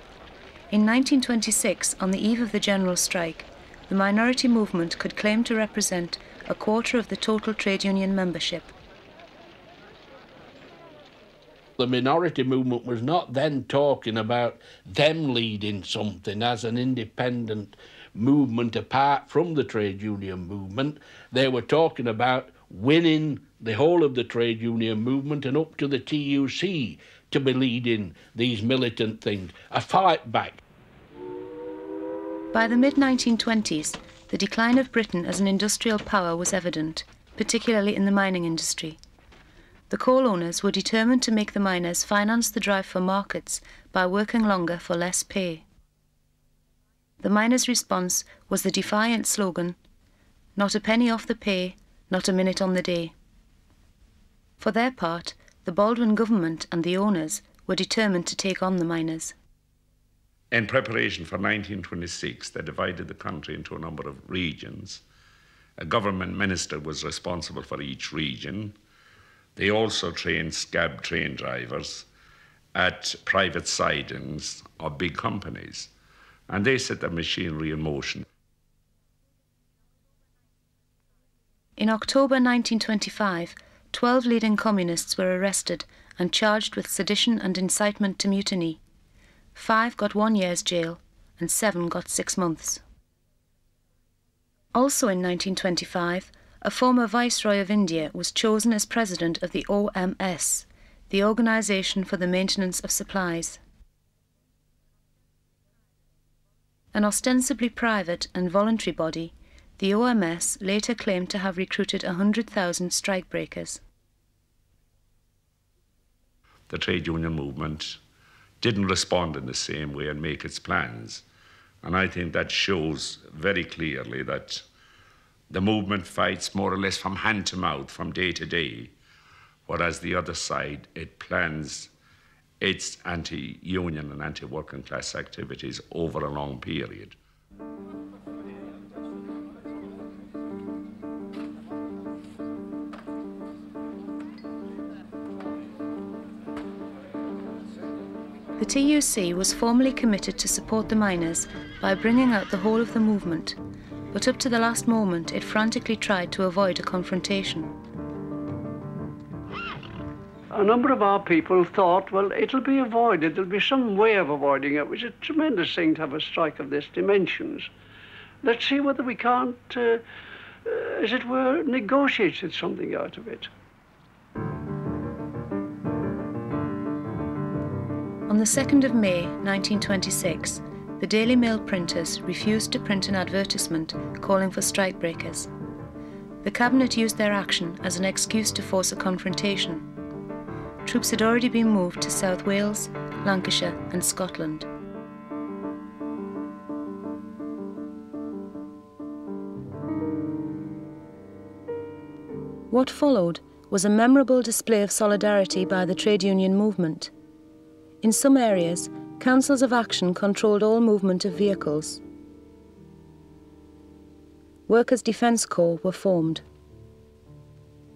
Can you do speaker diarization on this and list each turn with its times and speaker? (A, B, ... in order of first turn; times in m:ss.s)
0:00.7-0:08.7 A
0:11.8-0:30.6 B
0:32.5-0:39.0 A
0:39.9-0:45.6 A
0:47.2-0:49.8 A
0:50.6-0:53.1 A
0:54.6-0:59.3 A
1:00.5-1:05.0 C
1:05.8-1:08.7 C
1:09.6-1:12.0 C
1:12.7-1:15.9 C
1:16.5-1:18.2 C
1:21.8-1:28.8 A
1:29.5-1:32.8 A
1:34.7-1:43.6 A
1:46.9-1:53.8 A
1:56.7-1:58.0 C
1:58.6-2:01.2 C
2:01.8-2:04.6 C
2:05.5-2:08.9 C
2:09.6-2:11.9 C
2:12.6-2:17.1 C
2:28.6-2:33.6 A
2:34.1-2:37.7 A
2:40.5-2:47.7 D
2:48.4-2:50.0 D
2:50.6-2:53.5 D
2:58.3-3:05.5 A
3:06.4-3:09.9 A
3:10.8-3:14.7 A
3:22.7-3:27.1 A
3:28.0-3:32.0 A
3:34.7-3:36.4 A